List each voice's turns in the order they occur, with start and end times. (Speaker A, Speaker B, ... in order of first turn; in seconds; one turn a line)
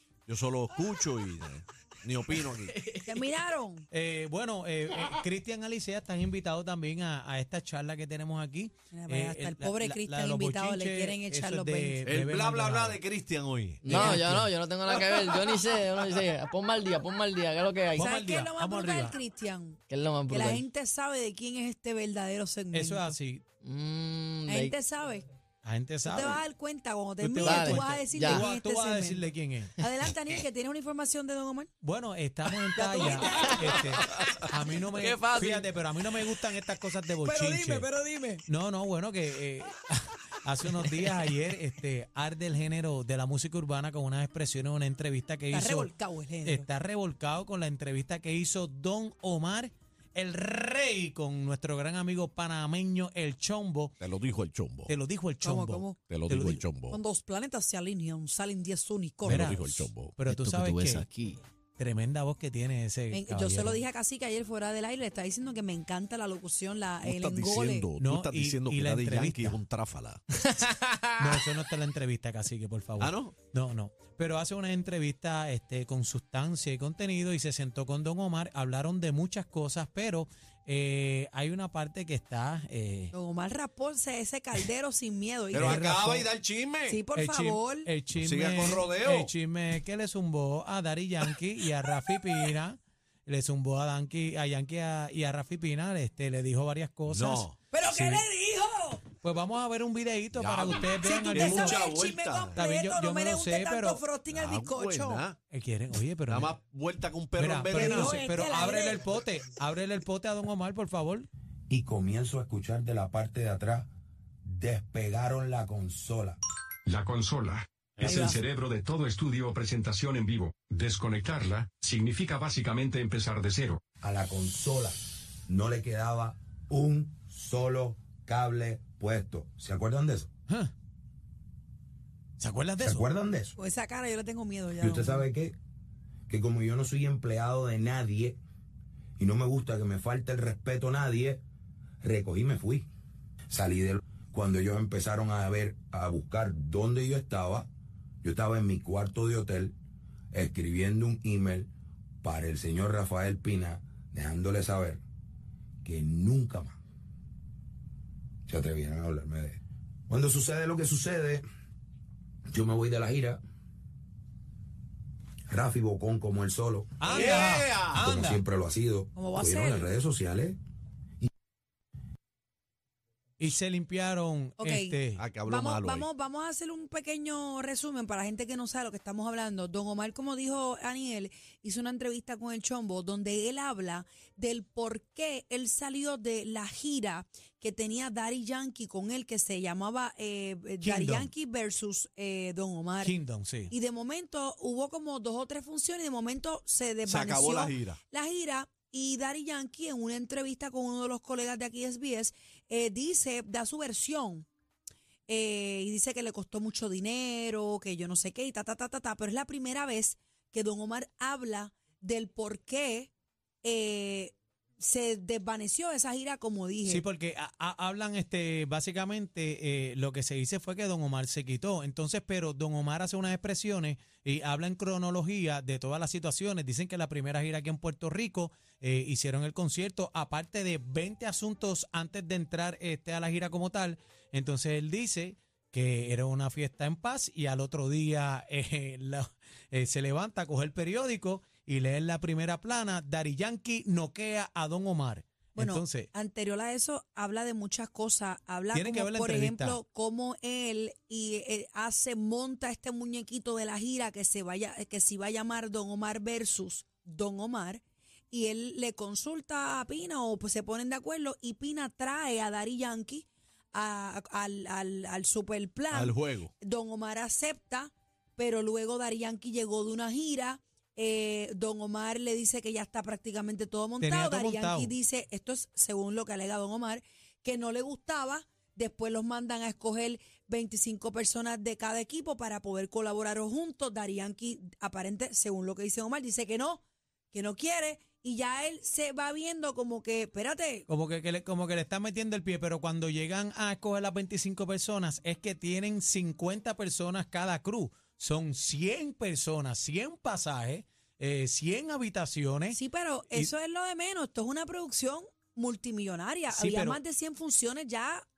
Speaker A: 0.3-2.8
Speaker B: 2.7-3.4
Speaker C: 3.0-3.9
Speaker D: 3.9-13.0
Speaker C: 8.9-12.0
Speaker A: 12.1-14.3
Speaker B: 13.8-18.1
Speaker D: 13.9-14.5
Speaker A: 14.9-16.2
Speaker D: 17.9-19.2
Speaker C: 18.0-23.1
Speaker B: 19.9-20.6
Speaker D: 22.7-23.4
Speaker B: 23.6-24.8
Speaker C: 24.5-25.2
Speaker D: 25.6-26.4
Speaker C: 26.1-31.7
Speaker D: 27.2-29.8
Speaker B: 27.4-28.4
Speaker D: 31.8-37.9
Speaker B: 32.8-35.7
Speaker C: 32.8-33.8
Speaker C: 37.2-38.4
Speaker D: 38.5-45.9
Speaker C: 45.5-46.7
Speaker D: 46.5-54.0
Speaker A: 54.0-55.0
Speaker D: 54.9-56.6
Speaker C: 55.4-56.0
Speaker A: 56.1-57.0
Speaker C: 56.9-59.6
Speaker A: 59.3-60.2
Speaker D: 59.3-61.1
Speaker B: 60.3-61.4
Speaker D: 61.8-63.8
Speaker C: 63.1-67.9
Speaker A: 67.0-70.2
Speaker D: 68.0-69.6
Speaker B: 70.4-71.4
Speaker D: 71.2-83.1
Speaker A: 73.0-73.3
Speaker C: 83.1-85.8
Speaker A: 85.5-87.0
Speaker D: 85.5-86.3
Speaker C: 86.9-87.9
Speaker D: 87.2-98.2
Speaker A: 88.2-89.3
Speaker A: 97.1-97.6
Speaker C: 97.7-99.0
Speaker D: 99.2-101.9
Speaker A: 100.4-102.6
Speaker C: 101.0-105.2
Speaker D: 102.5-104.0
Speaker A: 104.3-105.4
Speaker D: 105.5-106.5
Speaker A: 106.3-108.2
Speaker D: 107.4-111.3
Speaker C: 107.7-109.0
Speaker E: 111.7-113.9
Speaker E: 114.5-116.4
Speaker F: 116.9-123.8
Speaker C: 118.0-118.4
Speaker E: 124.0-130.3
Speaker D: 130.5-130.7
Speaker D: 132.4-133.1
Speaker E: 132.8-133.6
Speaker C: 133.6-135.3
Speaker E: 134.8-135.6
Speaker E: 136.3-138.4
Speaker E: 139.2-141.4
Speaker E: 142.0-142.9
Speaker E: 143.5-147.7
Speaker E: 148.2-149.8
Speaker E: 150.3-151.7
Speaker E: 152.2-155.0
Speaker E: 155.8-156.8
Speaker E: 158.5-161.4
Speaker E: 162.5-163.4
Speaker E: 165.5-167.3
Speaker D: 167.0-168.4
Speaker A: 167.1-168.0
Speaker E: 167.9-170.6
Speaker C: 169.2-169.9
Speaker D: 173.4-175.2
Speaker C: 174.6-193.2
Speaker A: 175.2-176.1
Speaker D: 190.8-191.3
Speaker D: 193.0-193.7
Speaker C: 193.7-204.5
Speaker A: 197.1-198.0
Speaker C: 205.3-213.1
Speaker C: 213.6-217.0
Speaker D: 216.9-246.1
Speaker C: 245.6-290.9
Speaker D: 248.7-249.8
Speaker A: 265.9-266.5
Speaker D: 274.0-274.9
Speaker D: 290.9-302.8
Speaker C: 302.7-308.3
Speaker D: 306.5-307.0